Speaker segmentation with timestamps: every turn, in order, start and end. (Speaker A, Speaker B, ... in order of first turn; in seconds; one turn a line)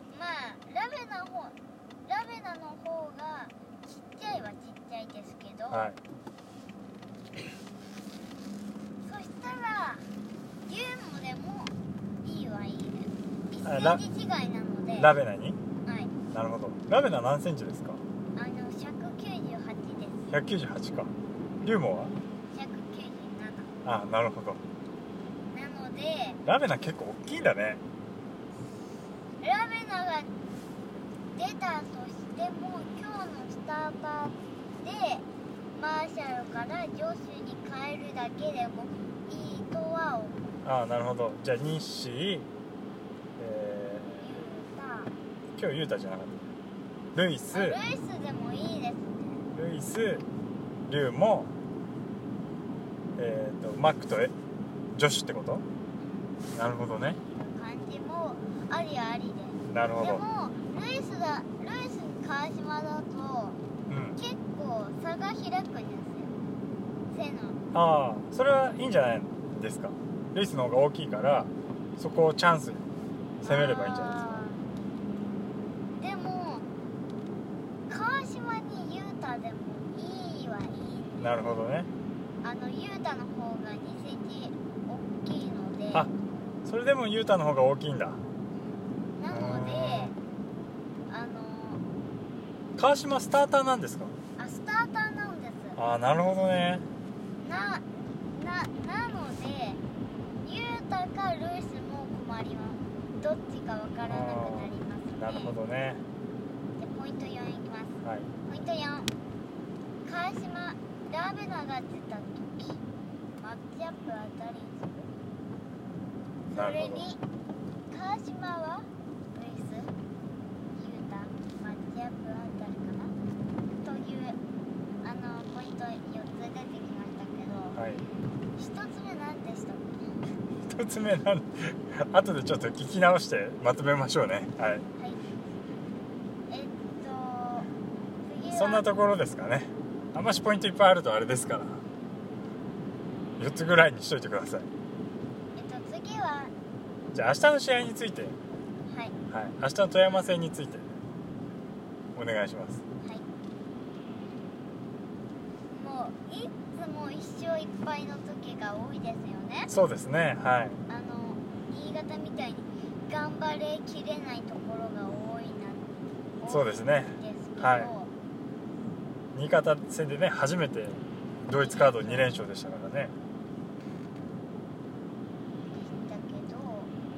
Speaker A: 0.1-5.9
Speaker B: 5.7-6.0
Speaker A: 9.0-10.1
Speaker A: 10.7-15.1
Speaker B: 13.6-14.0
Speaker B: 15.0-15.6
Speaker A: 15.8-16.1
Speaker B: 16.3-18.0
Speaker A: 18.3-20.4
Speaker B: 20.3-21.1
Speaker B: 21.6-22.1
Speaker A: 22.5-23.7
Speaker B: 23.8-24.6
Speaker A: 25.5-26.4
Speaker B: 26.4-27.8
Speaker A: 29.4-30.3
Speaker A: 31.3-40.5
Speaker B: 40.6-42.5
Speaker B: 43.4-44.3
Speaker A: 44.2-45.1
Speaker B: 45.5-46.5
Speaker B: 47.1-47.8
Speaker A: 47.5-49.4
Speaker B: 49.5-50.2
Speaker B: 50.9-51.5
Speaker B: 53.1-54.3
Speaker B: 54.9-55.6
Speaker A: 56.0-56.3
Speaker B: 56.5-57.2
Speaker A: 57.3-63.6
Speaker B: 59.7-60.2
Speaker B: 63.9-64.2
Speaker A: 64.2-66.3
Speaker A: 67.1-67.6
Speaker B: 67.7-72.9
Speaker B: 73.4-74.4
Speaker A: 73.4-74.7
Speaker A: 75.9-76.7
Speaker A: 77.9-81.6
Speaker B: 81.2-81.9
Speaker A: 82.4-86.1
Speaker B: 86.6-88.2
Speaker A: 88.7-90.2
Speaker B: 89.3-90.1
Speaker A: 91.1-91.8
Speaker B: 92.8-94.1
Speaker A: 94.4-95.8
Speaker B: 95.8-96.9
Speaker A: 97.4-99.8
Speaker A: 100.4-105.5
Speaker B: 104.1-106.0
Speaker A: 106.8-109.1
Speaker B: 108.0-108.3
Speaker A: 110.0-112.8
Speaker A: 113.4-115.1
Speaker A: 116.5-117.2
Speaker B: 116.5-117.1
Speaker A: 117.9-119.9
Speaker A: 120.7-123.1
Speaker A: 123.8-124.4
Speaker A: 125.0-127.8
Speaker B: 127.7-128.0
Speaker A: 128.6-130.1
Speaker B: 130.7-134.8
Speaker A: 135.0-135.2
Speaker A: 136.5-137.7
Speaker A: 138.2-138.8
Speaker B: 138.5-141.8
Speaker B: 143.4-144.7
Speaker A: 145.6-146.5
Speaker B: 147.1-148.4
Speaker A: 148.9-149.2
Speaker B: 149.3-150.9
Speaker B: 152.1-152.8
Speaker A: 155.7-159.7
Speaker B: 159.7-160.8
Speaker A: 160.9-168.1
Speaker B: 166.4-167.9
Speaker B: 169.3-173.1
Speaker A: 171.6-172.3
Speaker A: 175.7-176.9